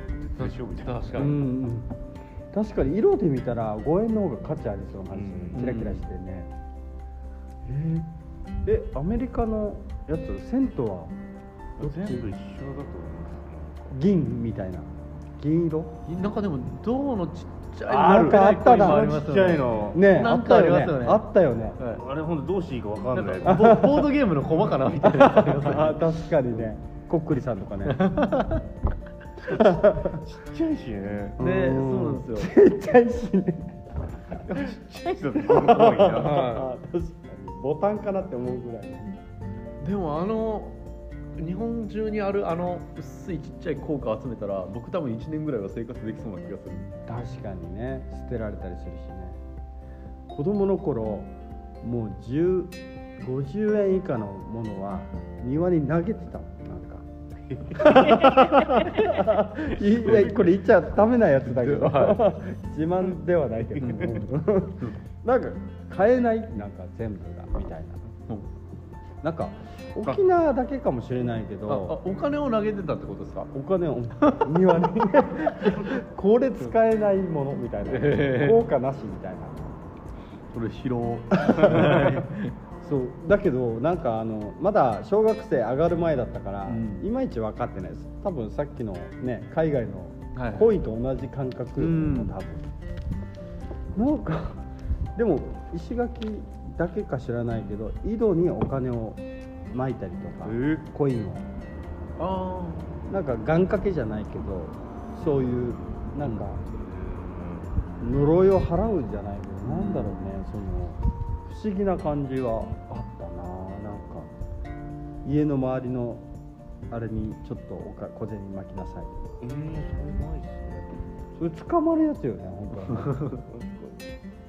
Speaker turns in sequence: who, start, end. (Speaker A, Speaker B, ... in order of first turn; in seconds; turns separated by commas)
Speaker A: 0.2-1.3, Speaker B: 0.4-1.4, Speaker C: 1.2-1.9, Speaker C: 2.5-6.5, Speaker A: 5.1-5.8, Speaker B: 5.5-6.0, Speaker C: 7.6-8.1, Speaker C: 8.6-11.1, Speaker A: 11.8-13.9, Speaker C: 11.8-12.3, Speaker C: 13.9-16.0, Speaker B: 16.1-21.2, Speaker C: 17.9-19.1, Speaker A: 18.6-20.0, Speaker C: 19.9-21.8, Speaker A: 21.9-23.8, Speaker B: 23.1-26.0, Speaker C: 23.4-24.0, Speaker C: 25.1-28.0, Speaker B: 27.8-28.7, Speaker C: 29.5-30.2, Speaker A: 29.5-31.4, Speaker B: 31.4-32.5, Speaker C: 31.4-34.4, Speaker A: 34.4-36.6, Speaker C: 35.4-39.1, Speaker B: 36.1-36.7, Speaker B: 39.8-40.8, Speaker B: 41.4-46.9, Speaker C: 47.0-49.4, Speaker C: 50.3-57.0, Speaker A: 57.5-60.5, Speaker C: 57.7-68.0, Speaker B: 61.4-62.4, Speaker B: 63.8-64.2, Speaker C: 69.2-72.0, Speaker B: 71.7-73.5, Speaker C: 73.5-79.8, Speaker B: 74.2-74.5, Speaker B: 75.5-75.9, Speaker B: 77.9-78.6, Speaker B: 80.5-82.5, Speaker C: 81.4-82.3, Speaker C: 82.8-92.6, Speaker B: 86.7-87.0, Speaker B: 90.3-90.7, Speaker B: 91.8-92.4, Speaker C: 93.9-101.5, Speaker A: 100.4-100.8, Speaker B: 102.2-102.9, Speaker C: 103.1-106.6, Speaker A: 106.8-108.0, Speaker C: 108.0-114.3, Speaker B: 109.6-110.2, Speaker C: 115.2-116.3, Speaker C: 116.9-119.3, Speaker A: 119.4-120.9, Speaker C: 121.3-123.2, Speaker B: 122.9-123.4, Speaker A: 123.4-124.1